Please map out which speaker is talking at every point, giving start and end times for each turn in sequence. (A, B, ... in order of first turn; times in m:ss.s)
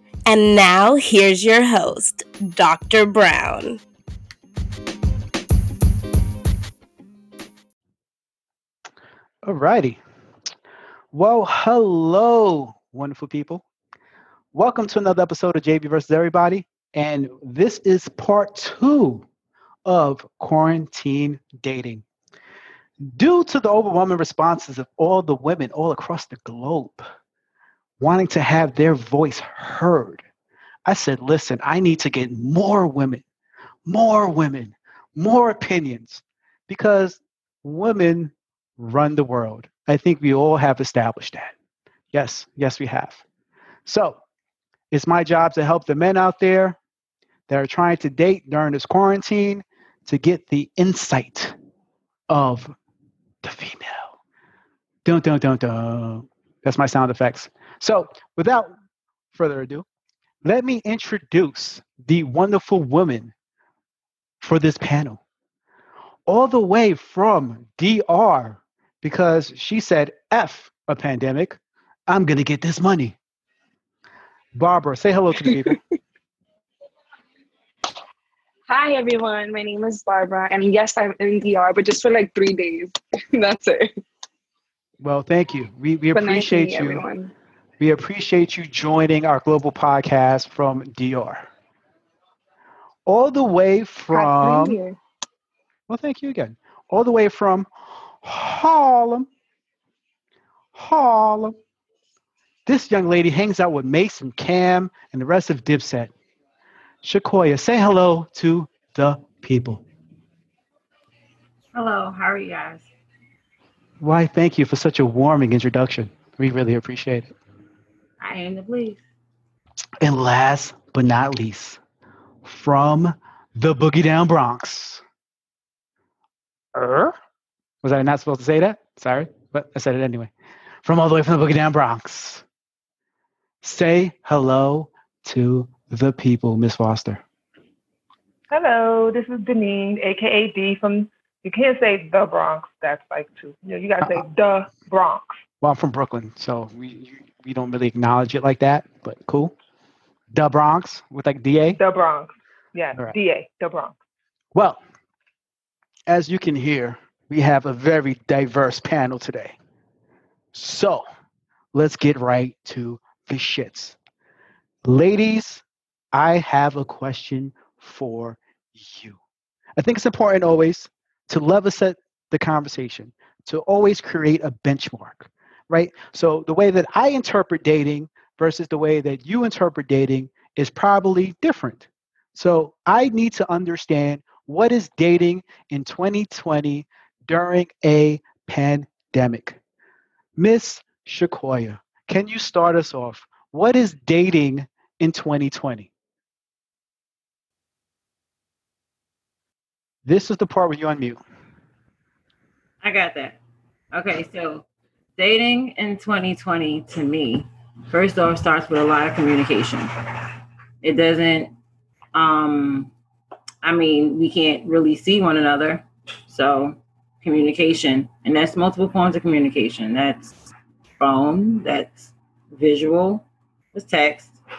0:00.2-0:03.8 A
0:09.4-0:10.0 B
0:11.1-0:13.6 B
0:14.5-0:19.2 B
0:19.8-0:22.0 B
0:23.0-0:27.0 B
0:28.0-0:30.2 B
0:30.8-0:33.2 B
0:33.8-0:41.5 B
0:42.1-0:43.2 B
0:43.8-0:44.2 B
0:44.9-0:46.8 B
0:47.5-0:51.6 B
0:52.3-0:52.7 B
0:53.4-0:54.1 B
0:55.0-0:58.7 B
0:59.3-0:59.8 B
1:00.4-1:03.3 B
1:04.4-1:05.2 B
1:06.3-1:13.2 B
1:14.5-1:15.8 B
1:18.7-1:23.9 C
1:25.0-1:27.0 B
1:26.1-1:27.3 C
1:27.8-1:31.5 B
1:33.0-1:34.8 B
1:34.1-1:35.0 C
1:35.9-1:37.7 B
1:38.2-1:39.3 B
1:40.7-1:41.6 B
1:42.6-1:46.1 B
1:47.0-1:49.8 B
1:51.7-1:52.9 D
1:54.0-1:57.3 B
1:58.2-1:59.0 D
2:00.0-2:01.8 B
2:02.4-2:05.0 B
2:06.7-2:07.1 B
2:07.8-2:10.3 B
2:10.8-2:12.4 B
2:13.6-2:17.2 B
2:18.5-2:25.2 E
2:24.0-2:24.2 B
2:25.6-2:29.5 B
2:30.3-2:31.8 B
2:31.8-2:33.9 E
2:34.5-2:34.8 B
2:36.1-2:39.6 B
2:40.5-2:41.0 B
2:41.7-2:44.0 B
2:44.8-2:49.2 B
2:49.8-3:09.6 B
3:10.4-3:15.9 B
3:20.0-3:21.2 B
3:22.8-3:23.4 D
3:23.9-3:24.6 D
3:25.2-3:29.9 D
3:30.8-3:31.5 D
3:32.1-3:32.9 D
3:33.6-3:40.3 D
3:41.0-3:44.4 D